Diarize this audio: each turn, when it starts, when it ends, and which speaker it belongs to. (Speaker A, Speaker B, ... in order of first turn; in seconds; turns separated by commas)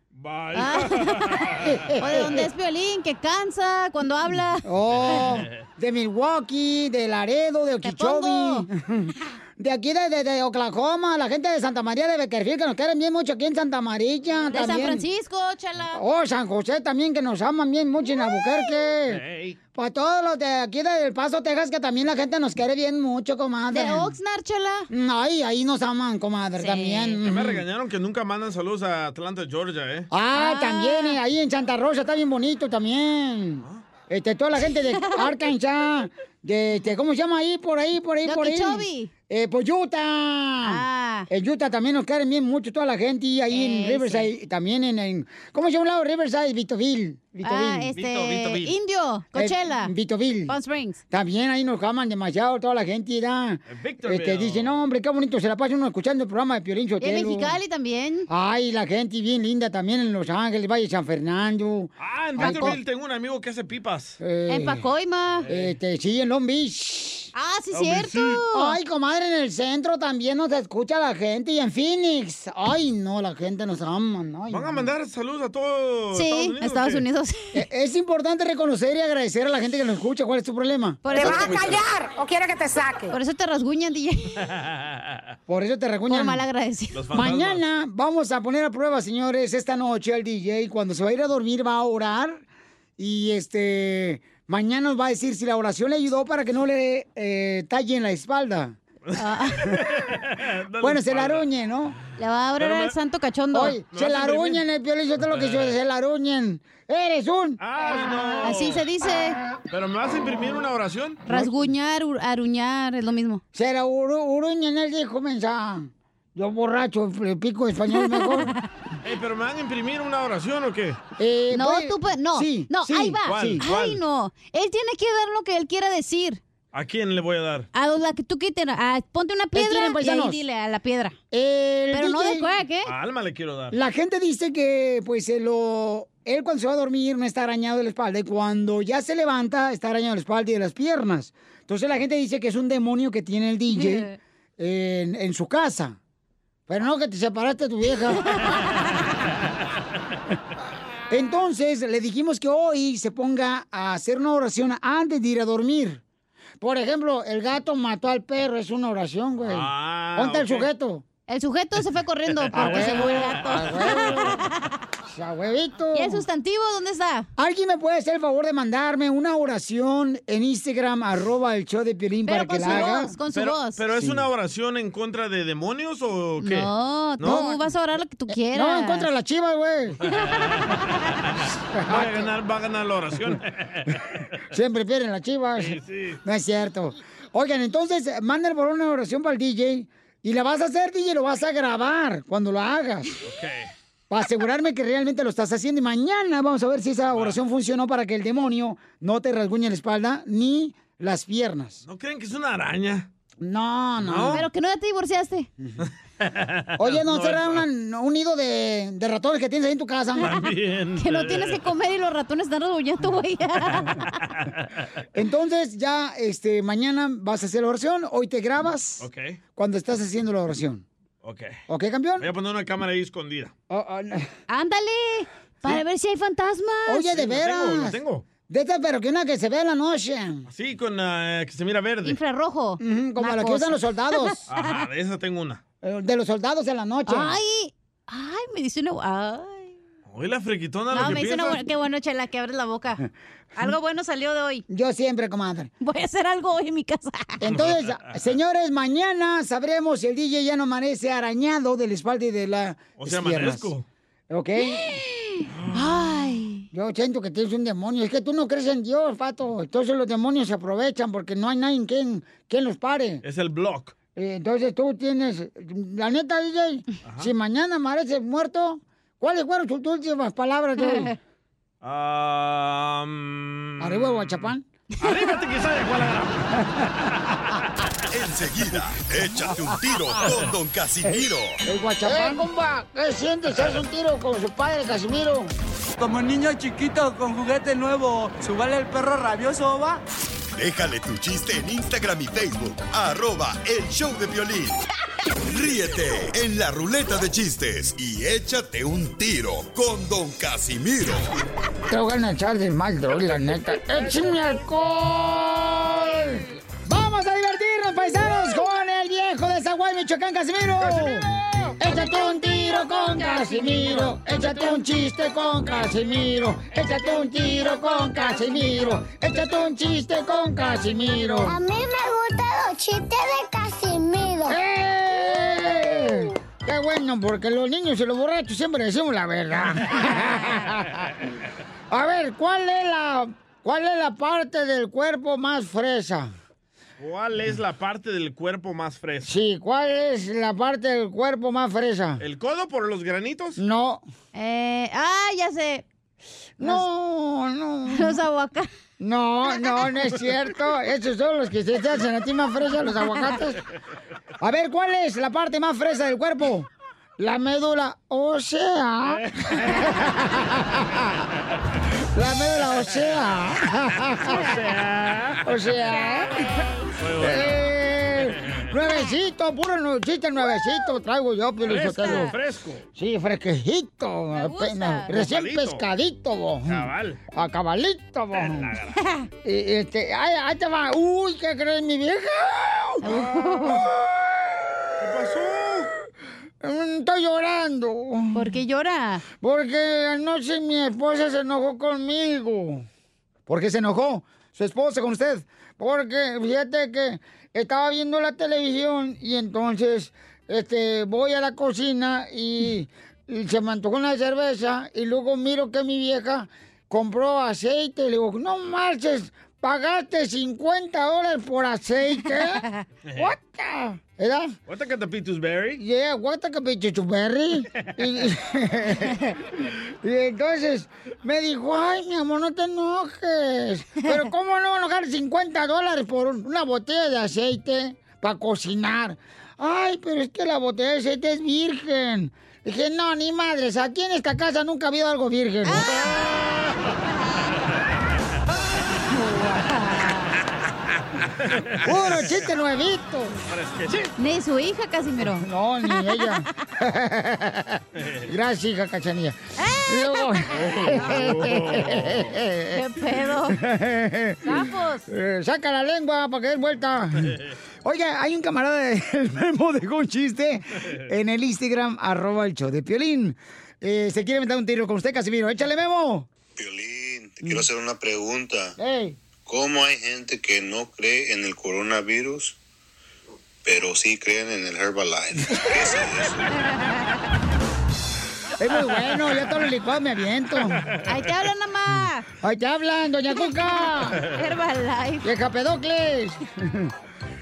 Speaker A: 0.2-1.8, Speaker B: 0.6-4.7, Speaker C: 1.6-2.5, Speaker C: 4.7-15.1, Speaker A: 5.0-5.5, Speaker B: 7.8-8.7, Speaker B: 14.5-16.0, Speaker C: 15.9-19.2, Speaker A: 19.1-19.6, Speaker C: 19.8-24.1, Speaker B: 23.7-24.9, Speaker C: 24.9-27.6, Speaker B: 26.6-27.2, Speaker A: 27.2-30.1, Speaker C: 30.1-47.9, Speaker B: 30.4-31.2, Speaker B: 35.0-35.3, Speaker B: 38.2-39.1, Speaker B: 40.6-41.3, Speaker B: 43.5-44.3, Speaker B: 47.4-49.9, Speaker A: 48.0-48.8, Speaker C: 49.3-50.5, Speaker B: 50.5-51.0, Speaker C: 51.1-57.6, Speaker A: 53.7-54.8, Speaker B: 57.0-58.3, Speaker C: 58.3-62.8, Speaker A: 62.0-64.2, Speaker B: 62.4-62.8, Speaker C: 64.2-64.8, Speaker B: 64.5-65.5, Speaker A: 65.4-65.7, Speaker C: 65.5-67.3, Speaker B: 67.3-68.8, Speaker A: 67.7-68.4, Speaker C: 68.5-74.9, Speaker A: 74.5-77.0, Speaker B: 76.1-77.4, Speaker C: 77.5-81.9, Speaker B: 81.0-81.8, Speaker A: 81.2-81.8, Speaker B: 83.1-84.4, Speaker A: 84.5-85.2, Speaker C: 85.5-86.4, Speaker B: 86.1-87.0, Speaker A: 86.9-87.6, Speaker C: 87.1-92.4, Speaker C: 93.0-98.8, Speaker A: 99.1-101.5, Speaker B: 99.2-99.7, Speaker C: 100.8-102.0, Speaker B: 102.2-103.8, Speaker A: 102.6-103.0, Speaker C: 103.5-107.6, Speaker A: 103.9-104.6, Speaker A: 105.3-105.7, Speaker A: 107.6-108.8, Speaker B: 108.4-109.4, Speaker A: 109.7-111.2, Speaker B: 111.3-113.4, Speaker C: 113.5-118.5, Speaker B: 118.0-118.6, Speaker A: 119.0-121.0, Speaker C: 121.2-123.6, Speaker B: 121.5-126.4, Speaker A: 123.3-124.0, Speaker A: 126.7-127.7, Speaker B: 127.7-131.2, Speaker C: 129.5-130.4, Speaker C: 131.3-132.5, Speaker B: 131.9-132.9, Speaker A: 132.9-133.8, Speaker C: 133.7-146.0, Speaker B: 143.7-144.1, Speaker C: 146.7-148.4, Speaker C: 151.1-156.0, Speaker C: 156.6-161.0, Speaker A: 159.4-160.7, Speaker B: 161.3-164.7, Speaker A: 162.4-163.6, Speaker C: 162.5-164.4, Speaker C: 165.1-166.2, Speaker B: 165.9-167.3, Speaker C: 167.4-173.1, Speaker B: 172.3-173.8, Speaker A: 172.7-177.5, Speaker C: 174.0-174.2, Speaker B: 176.4-179.1, Speaker C: 177.2-177.6, Speaker C: 178.3-180.0, Speaker B: 180.1-180.9, Speaker A: 180.2-180.6, Speaker C: 181.7-182.3, Speaker A: 181.9-184.0, Speaker C: 184.5-193.1, Speaker A: 185.6-186.2, Speaker A: 193.2-193.7, Speaker C: 194.1-201.8, Speaker A: 201.9-203.1, Speaker C: 203.4-204.4, Speaker A: 204.0-204.4, Speaker B: 204.3-205.5, Speaker A: 205.9-207.6, Speaker C: 206.8-210.3, Speaker A: 210.2-211.6, Speaker B: 211.0-214.2, Speaker C: 215.1-220.8, Speaker A: 219.0-219.4, Speaker A: 221.2-221.6, Speaker C: 221.7-222.3, Speaker A: 222.2-223.5, Speaker C: 223.7-224.3, Speaker B: 224.5-227.0, Speaker C: 226.9-230.5, Speaker A: 227.1-228.3, Speaker A: 230.5-232.2, Speaker B: 232.1-234.7, Speaker C: 232.8-234.4, Speaker A: 234.5-235.6, Speaker C: 235.8-237.4, Speaker B: 237.1-239.7, Speaker A: 240.1-241.6, Speaker B: 240.9-243.0, Speaker B: 243.6-244.6, Speaker C: 244.7-245.7, Speaker B: 245.8-247.4, Speaker C: 247.4-253.7, Speaker A: 253.0-253.9, Speaker C: 254.3-255.0, Speaker B: 254.6-256.7, Speaker C: 256.7-263.2, Speaker A: 263.2-263.9, Speaker C: 264.2-271.1, Speaker A: 267.1-267.3, Speaker A: 271.8-277.4, Speaker C: 273.8-274.6, Speaker D: 278.1-281.6, Speaker C: 281.6-285.5, Speaker E: 286.1-289.9, Speaker D: 290.5-294.8, Speaker D: 295.4-301.3, Speaker C: 301.9-311.3, Speaker C: 311.8-321.6, Speaker F: 321.5-324.6, Speaker C: 324.5-331.1, Speaker C: 331.9-336.3, Speaker A: 337.0-339.3, Speaker C: 339.2-342.2, Speaker A: 342.2-343.6, Speaker C: 343.6-344.0, Speaker B: 344.3-345.9, Speaker C: 346.6-348.2, Speaker B: 347.9-348.7, Speaker C: 349.0-353.6, Speaker C: 354.4-361.2, Speaker C: 362.1-364.5, Speaker A: 364.3-365.4, Speaker C: 365.4-366.5, Speaker B: 365.9-366.9, Speaker A: 367.0-367.7, Speaker C: 367.2-372.3, Speaker A: 368.2-368.7, Speaker A: 371.6-372.8, Speaker B: 372.0-372.3, Speaker C: 372.9-378.7, Speaker B: 374.4-375.1, Speaker A: 375.1-375.9, Speaker A: 376.7-377.2, Speaker A: 378.3-378.9, Speaker C: 379.4-384.9, Speaker B: 383.0-383.9, Speaker A: 385.0-385.9, Speaker C: 386.6-388.6, Speaker B: 388.3-389.2, Speaker C: 389.4-392.9, Speaker C: 393.5-414.6, Speaker A: 414.7-415.8, Speaker C: 415.8-435.9, Speaker B: 435.7-436.4, Speaker B: 437.2-437.6, Speaker C: 439.1-439.7, Speaker B: 439.9-440.3, Speaker A: 441.5-442.3, Speaker C: 441.8-443.4, Speaker A: 443.5-444.1, Speaker B: 444.2-446.3, Speaker C: 445.3-452.8, Speaker A: 448.0-448.3, Speaker B: 449.6-450.3, Speaker A: 450.6-452.4, Speaker B: 451.0-451.4, Speaker B: 452.7-453.6, Speaker C: 453.5-466.3, Speaker B: 454.4-455.1, Speaker G: 466.6-468.7, Speaker C: 468.8-469.2, Speaker G: 469.5-472.5, Speaker G: 473.7-476.3, Speaker C: 478.6-480.9, Speaker B: 481.1-482.3, Speaker C: 482.4-484.2, Speaker B: 483.4-485.3, Speaker C: 485.2-486.9